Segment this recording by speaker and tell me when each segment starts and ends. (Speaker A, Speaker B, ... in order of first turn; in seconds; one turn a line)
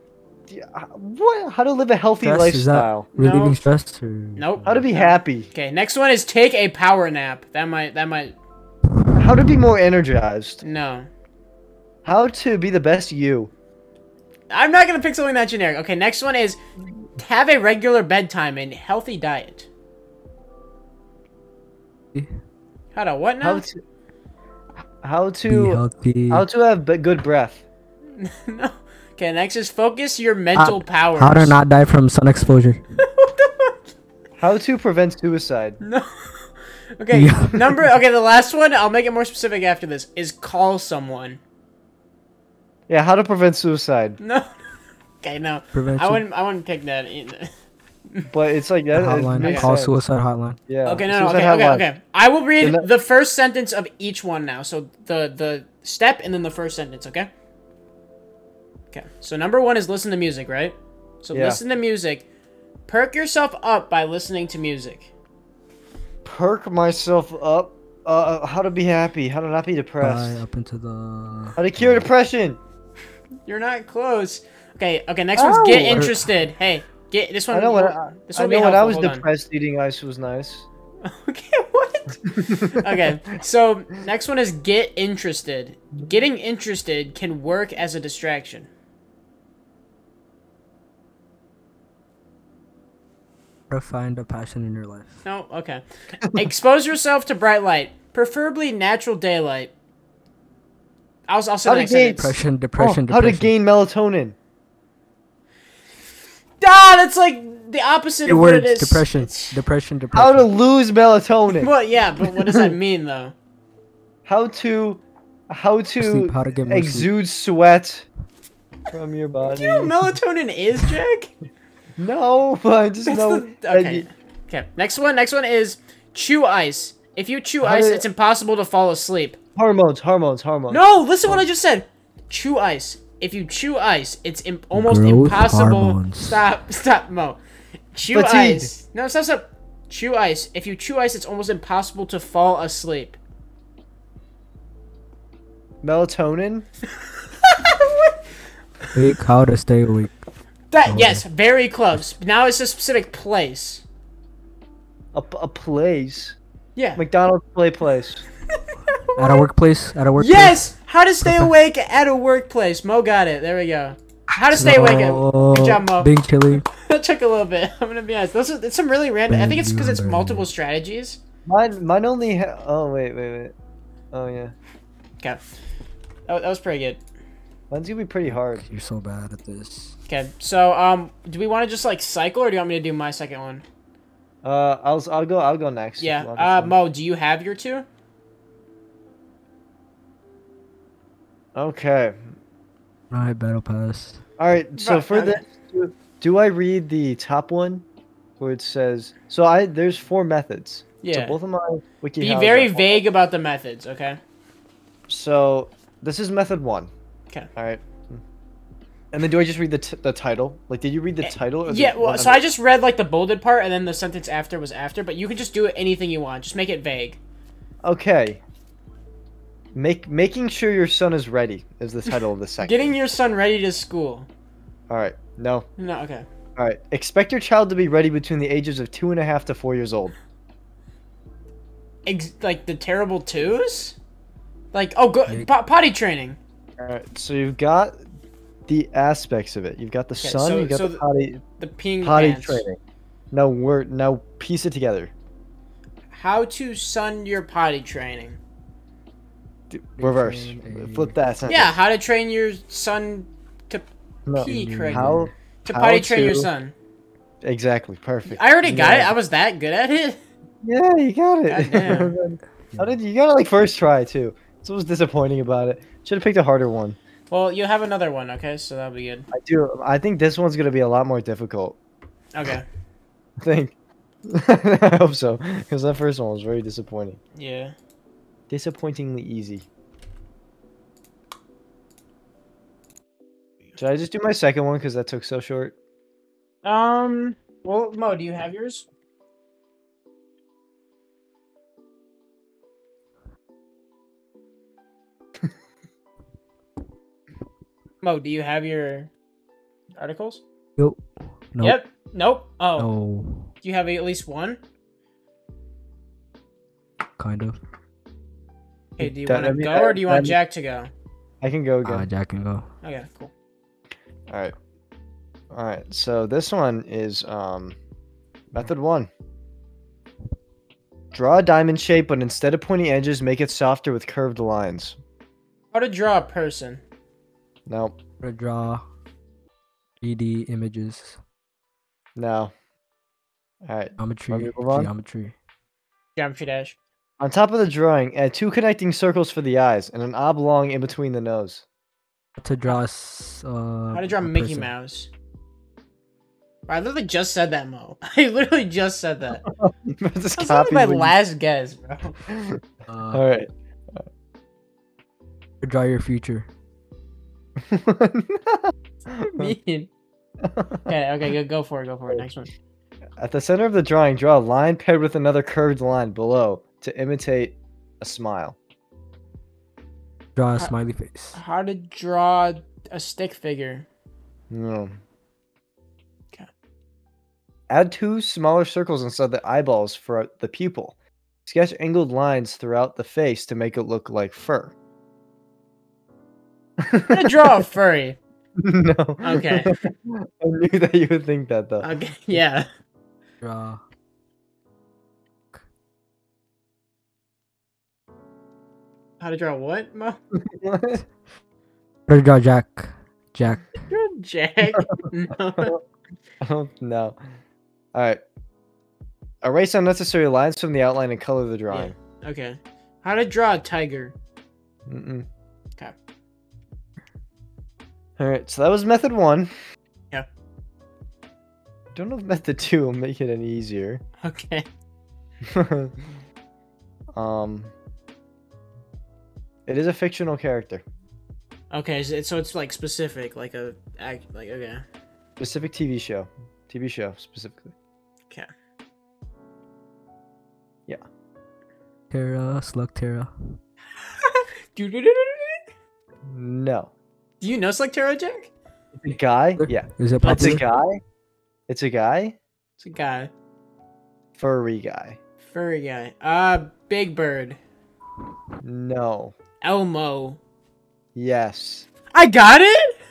Speaker A: 0.5-3.1
Speaker B: 2.2-4.8
Speaker C: 3.1-3.6
Speaker C: 4.4-8.4
Speaker A: 4.7-5.5
Speaker A: 9.2-10.6
Speaker C: 10.6-11.1
Speaker A: 12.1-13.5
Speaker C: 14.5-16.6
Speaker C: 17.2-19.7
Speaker C: 22.9-23.6
Speaker A: 23.4-23.8
Speaker A: 25.0-27.6
Speaker B: 25.5-26.4
Speaker C: 28.2-31.6
Speaker B: 30.6-32.8
Speaker C: 33.0-33.8
Speaker A: 34.4-35.8
Speaker C: 35.8-41.4
Speaker B: 37.1-37.7
Speaker A: 42.9-44.2
Speaker C: 44.2-44.5
Speaker C: 45.2-47.5
Speaker B: 45.7-46.2
Speaker A: 48.3-49.9
Speaker B: 48.9-50.6
Speaker C: 49.4-49.7
Speaker A: 50.7-51.9
Speaker C: 50.9-57.3
Speaker A: 52.6-52.9
Speaker C: 58.9-62.2
Speaker A: 61.3-61.6
Speaker C: 62.9-65.1
Speaker A: 66.2-70.4
Speaker B: 70.0-72.1
Speaker A: 71.6-72.6
Speaker C: 73.5-79.3
Speaker A: 75.4-76.1
Speaker B: 75.9-76.3
Speaker A: 77.5-80.7
Speaker C: 81.0-88.7
Speaker A: 82.2-83.1
Speaker B: 93.7-95.2
Speaker C: 95.2-99.7
Speaker C: 101.3-102.3
Speaker A: 101.7-104.4
Speaker B: 102.2-103.5
Speaker C: 106.6-109.5
Speaker B: 108.3-110.5
Speaker A: 110.1-111.7
Speaker C: 111.5-113.3
Speaker A: 112.3-112.7
Speaker A: 114.2-118.1
Speaker B: 116.0-117.1
Speaker A: 118.9-119.9
Speaker C: 119.5-121.3
Speaker A: 122.0-124.1
Speaker C: 123.0-129.4
Speaker A: 127.6-128.1
Speaker A: 129.6-131.4
Speaker C: 130.7-137.4
Speaker B: 134.7-136.4
Speaker C: 137.9-143.2
Speaker A: 138.1-138.7
Speaker A: 145.8-146.7
Speaker C: 147.4-148.2
Speaker B: 148.9-150.1
Speaker C: 150.7-153.8
Speaker B: 150.9-151.2
Speaker A: 155.1-156.4
Speaker C: 156.8-157.0
Speaker A: 157.0-158.2
Speaker C: 158.7-159.5
Speaker B: 159.2-160.6
Speaker C: 160.2-171.2
Speaker B: 161.2-161.5
Speaker B: 164.5-166.7
Speaker B: 169.3-170.5
Speaker A: 171.5-173.5
Speaker A: 174.1-174.5
Speaker C: 176.3-177.0
Speaker A: 177.7-178.7
Speaker B: 178.3-179.9
Speaker C: 180.1-183.6
Speaker A: 184.4-186.8
Speaker C: 186.0-187.9
Speaker A: 191.6-192.2
Speaker B: 193.1-194.2
Speaker A: 194.4-197.8
Speaker C: 194.8-195.4
Speaker A: 198.4-203.0
Speaker C: 201.0-201.4
Speaker C: 202.2-204.2
Speaker A: 205.1-206.9
Speaker A: 207.6-208.2
Speaker A: 209.1-212.4
Speaker C: 211.2-217.2
Speaker A: 217.8-218.4
Speaker A: 219.8-222.9
Speaker C: 222.6-224.3
Speaker A: 224.9-225.7
Speaker C: 225.8-226.3
Speaker A: 226.6-230.2
Speaker C: 232.1-234.0
Speaker C: 234.7-236.4
Speaker A: 236.8-238.0
Speaker A: 238.7-241.4
Speaker C: 240.2-242.6
Speaker A: 242.0-242.8
Speaker A: 243.3-245.1
Speaker C: 246.1-248.4
Speaker A: 249.7-251.7
Speaker B: 250.0-251.2
Speaker C: 251.5-256.7
Speaker A: 254.3-256.5
Speaker B: 254.4-255.3
Speaker A: 257.4-259.1
Speaker C: 258.3-260.2
Speaker A: 260.6-267.0
Speaker C: 261.5-262.1
Speaker C: 267.3-269.3
Speaker A: 269.3-271.8
Speaker C: 272.3-272.7
Speaker A: 273.4-273.8
Speaker A: 274.3-277.2
Speaker C: 277.4-277.8
Speaker A: 278.5-279.7
Speaker A: 283.8-285.8
Speaker C: 286.6-288.9
Speaker C: 298.0-299.1
Speaker C: 300.0-300.4
Speaker B: 301.5-301.8
Speaker C: 301.6-302.9
Speaker B: 302.8-303.5
Speaker C: 303.6-304.6
Speaker B: 307.2-307.6
Speaker C: 309.0-310.9
Speaker A: 309.3-310.4
Speaker A: 311.4-312.1
Speaker B: 311.9-312.7
Speaker C: 312.8-313.3
Speaker A: 314.3-314.6
Speaker A: 315.5-317.8
Speaker A: 318.5-319.1
Speaker A: 321.1-325.0
Speaker C: 325.7-326.8
Speaker A: 327.7-328.0
Speaker B: 328.2-328.8
Speaker B: 330.0-331.2
Speaker A: 332.2-332.5
Speaker A: 333.6-334.9
Speaker B: 334.0-335.4
Speaker C: 336.2-336.8
Speaker A: 337.2-341.6
Speaker B: 342.4-344.7
Speaker C: 343.9-345.1
Speaker C: 346.7-349.4
Speaker A: 349.5-351.1
Speaker C: 350.4-352.2
Speaker A: 352.3-354.0
Speaker B: 352.9-353.2
Speaker B: 355.6-356.5
Speaker A: 357.6-359.5
Speaker C: 359.2-359.9
Speaker A: 360.4-360.9
Speaker C: 360.9-362.5
Speaker A: 363.2-368.6
Speaker B: 370.4-371.4
Speaker C: 371.3-373.9
Speaker A: 374.5-374.9
Speaker A: 377.7-380.9
Speaker A: 381.5-384.7
Speaker A: 386.8-387.5
Speaker C: 387.1-388.2
Speaker A: 388.6-391.9
Speaker C: 389.2-389.7
Speaker C: 391.8-392.7
Speaker B: 393.4-393.8
Speaker C: 399.2-400.2
Speaker A: 400.4-401.0
Speaker B: 402.1-403.8
Speaker C: 403.9-405.8
Speaker A: 406.4-407.2
Speaker A: 407.9-408.2
Speaker A: 409.4-411.9
Speaker C: 411.7-414.1
Speaker A: 414.9-415.3
Speaker A: 418.2-419.5
Speaker A: 421.9-424.0
Speaker C: 424.2-424.7
Speaker A: 425.4-425.9
Speaker A: 427.1-427.7
Speaker A: 429.7-430.8
Speaker C: 431.7-434.8
Speaker A: 435.4-437.7
Speaker B: 442.1-443.3
Speaker C: 444.0-445.6
Speaker A: 446.3-446.9
Speaker C: 447.4-448.5
Speaker A: 449.0-451.0
Speaker B: 449.6-450.6
Speaker C: 450.2-450.6
Speaker A: 451.7-452.4
Speaker C: 452.8-453.3
Speaker A: 454.4-455.2
Speaker C: 455.5-457.6
Speaker A: 458.6-459.4
Speaker C: 459.6-460.4
Speaker A: 461.1-461.9
Speaker C: 462.1-462.9